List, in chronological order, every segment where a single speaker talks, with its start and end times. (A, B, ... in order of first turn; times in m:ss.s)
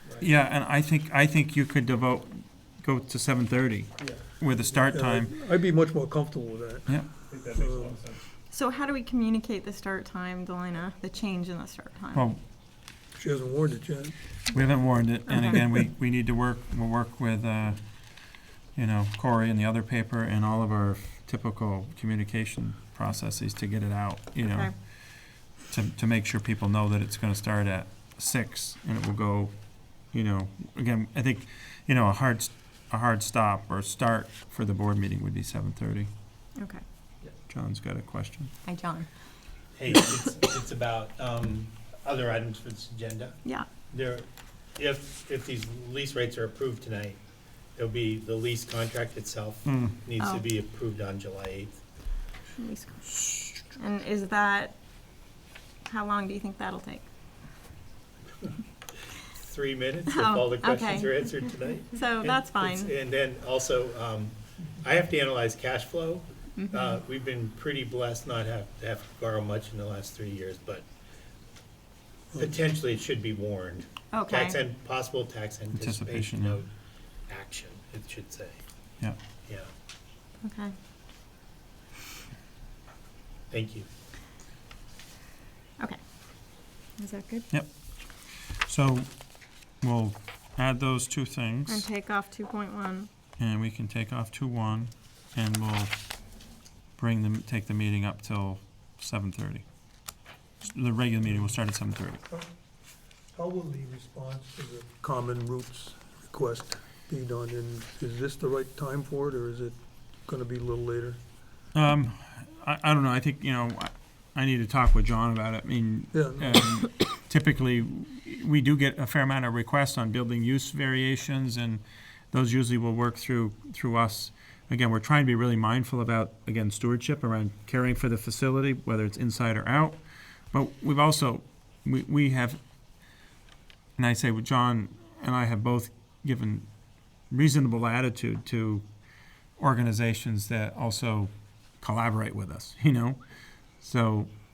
0:00.2-0:05.3 A
0:04.9-0:08.0 B
0:06.9-0:08.1 A
0:08.5-0:12.3 C
0:12.1-0:12.4 A
0:13.2-0:14.1 B
0:14.5-0:17.8 A
0:15.3-0:15.6 C
0:18.8-0:24.8 A
0:24.4-0:24.7 C
0:25.6-0:29.5 A
0:30.1-0:36.1 A
0:37.5-0:38.5 A
0:38.6-0:39.1 C
0:39.8-0:43.4 D
0:43.9-0:47.2 D
0:47.8-0:51.8 D
0:49.7-0:50.0 A
0:50.2-0:50.4 C
0:52.6-0:54.8 C
0:55.9-0:57.1 C
0:59.3-1:10.9 D
1:00.1-1:02.9 C
1:06.6-1:07.0 C
1:12.3-1:16.7 D
1:14.1-1:14.6 C
1:15.7-1:16.6 A
1:17.3-1:18.6 D
1:19.4-1:19.7 D
1:20.4-1:20.7 C
1:23.5-1:23.9 D
1:27.0-1:27.5 C
1:28.6-1:29.1 A
1:29.8-1:31.9 A
1:31.7-1:33.1 C
1:33.4-1:36.0 A
1:37.0-1:39.6 A
1:40.7-1:42.2 A
1:43.4-1:51.2 B
1:51.8-2:10.0 A
1:56.1-1:56.6 B
2:10.5-2:12.6 A
2:14.0-2:16.7 A
2:17.3-2:18.8 A
2:19.6-2:23.2 A
2:23.8-2:24.3 A